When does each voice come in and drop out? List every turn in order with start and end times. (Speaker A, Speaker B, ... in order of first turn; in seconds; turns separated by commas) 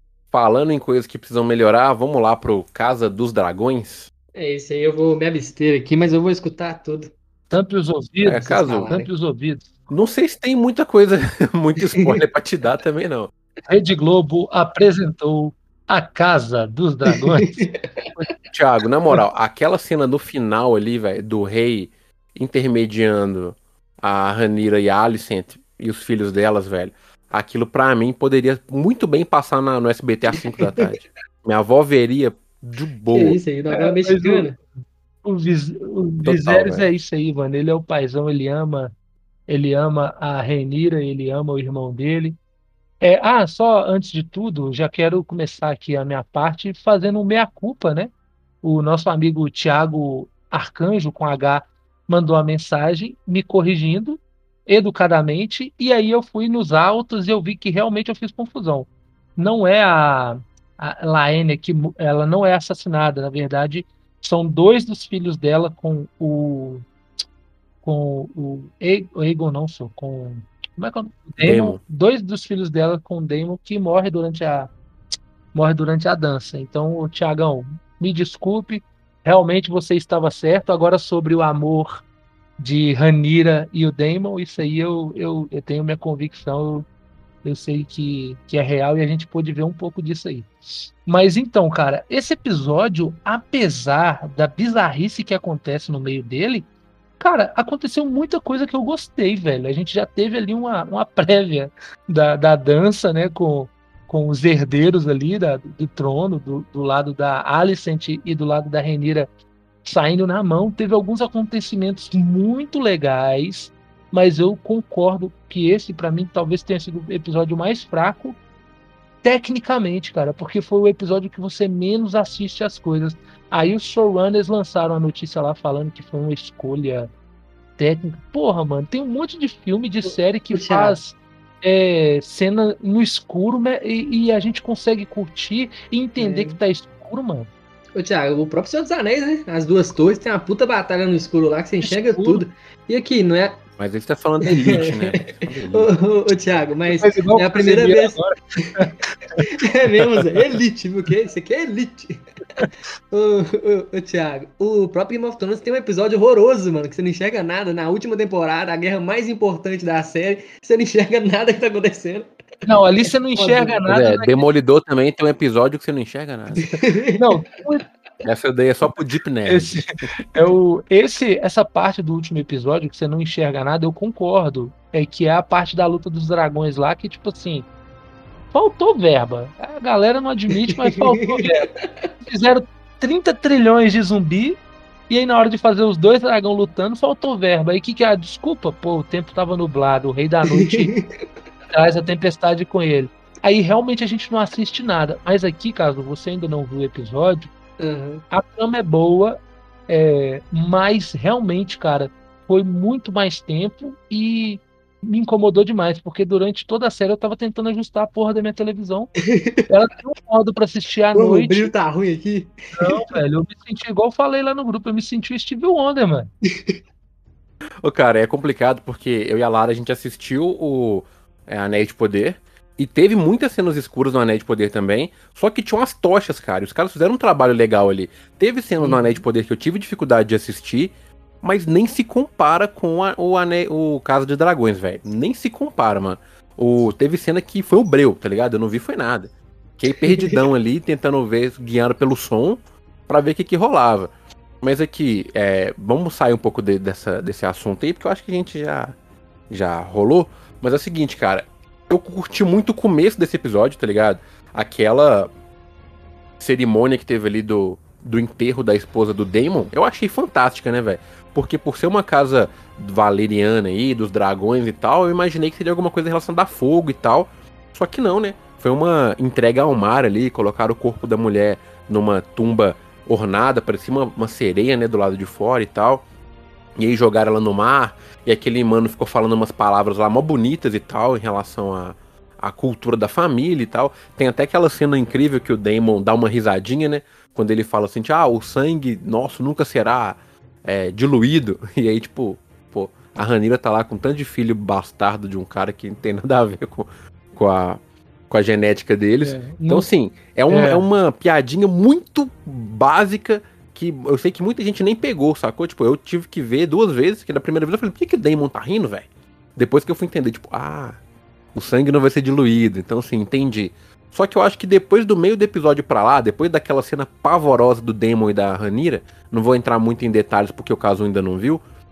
Speaker A: 0.3-4.1, Speaker B: 4.3-7.1, Speaker C: 7.5-9.7, Speaker A: 8.2-8.9, Speaker B: 8.4-9.1, Speaker A: 9.9-13.3, Speaker B: 11.8-12.2, Speaker C: 13.7-17.6, Speaker B: 17.1-18.1, Speaker A: 18.5-33.4, Speaker B: 30.4-30.9, Speaker B: 33.1-34.6, Speaker C: 33.7-34.6, Speaker C: 35.2-38.9, Speaker A: 36.2-36.9, Speaker C: 39.5-42.4, Speaker C: 43.0-48.1, Speaker C: 48.6-66.8, Speaker C: 67.8-74.7, Speaker A: 71.4-71.8, Speaker C: 75.5-82.0, Speaker C: 82.6-86.9, Speaker C: 87.4-90.5, Speaker C: 91.1-96.7, Speaker C: 97.2-109.3, Speaker C: 109.8-118.4, Speaker C: 119.2-127.1, Speaker C: 127.8-137.5, Speaker B: 130.0-131.0, Speaker B: 136.2-136.6, Speaker B: 138.0-143.6, Speaker C: 141.8-142.4, Speaker A: 143.8-145.9, Speaker B: 144.4-148.9, Speaker C: 147.0-149.5, Speaker B: 149.5-162.3, Speaker C: 162.7-164.4, Speaker B: 163.4-163.8, Speaker A: 163.9-166.7, Speaker B: 166.6-167.4, Speaker C: 167.2-167.8, Speaker A: 168.2-170.1, Speaker C: 169.5-177.7, Speaker C: 178.5-181.7, Speaker B: 180.6-182.1, Speaker C: 182.2-190.9, Speaker B: 190.5-191.3, Speaker C: 191.7-197.5, Speaker B: 197.8-198.2, Speaker C: 198.3-209.2, Speaker B: 209.2-209.6, Speaker C: 209.7-211.7, Speaker B: 211.1-213.2, Speaker C: 212.8-216.3, Speaker A: 217.8-244.1, Speaker B: 228.8-229.2, Speaker B: 240.0-240.4, Speaker A: 244.6-248.9, Speaker A: 249.5-255.3, Speaker A: 256.4-276.0, Speaker A: 276.8-311.0, Speaker C: 299.2-299.9, Speaker C: 300.5-300.9, Speaker A: 311.5-321.6